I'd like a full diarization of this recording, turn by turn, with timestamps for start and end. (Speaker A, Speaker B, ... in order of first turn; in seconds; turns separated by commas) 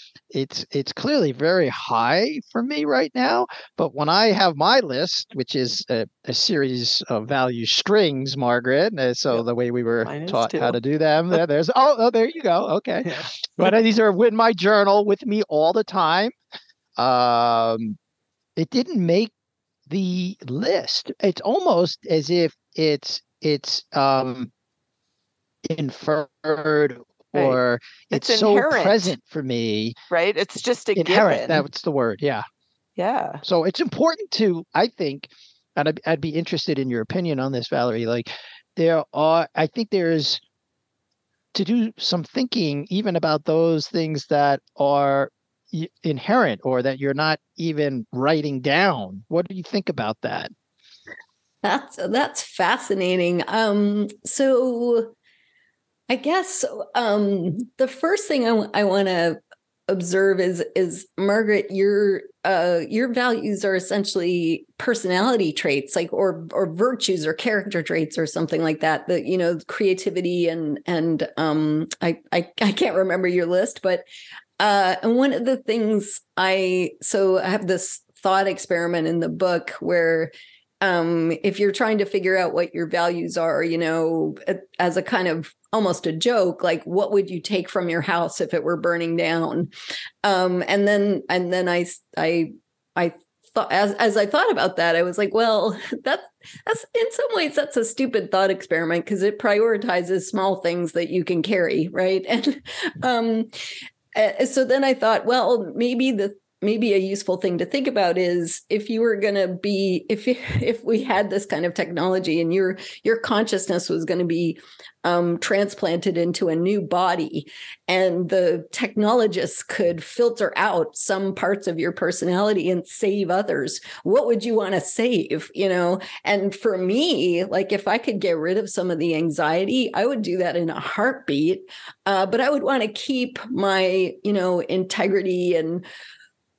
Speaker A: 0.3-16.3, Speaker B: 10.0-10.8, Speaker B: 13.1-13.7, Speaker A: 17.0-18.0, Speaker A: 18.6-19.3, Speaker A: 19.9-24.5, Speaker A: 25.6-29.9, Speaker B: 28.1-29.1, Speaker B: 30.1-31.6, Speaker A: 30.9-32.4, Speaker B: 33.0-33.4, Speaker A: 33.4-40.4, Speaker A: 41.5-50.5, Speaker C: 51.6-55.1, Speaker C: 56.1-74.0, Speaker C: 74.6-89.7, Speaker C: 90.2-103.5, Speaker C: 104.1-135.8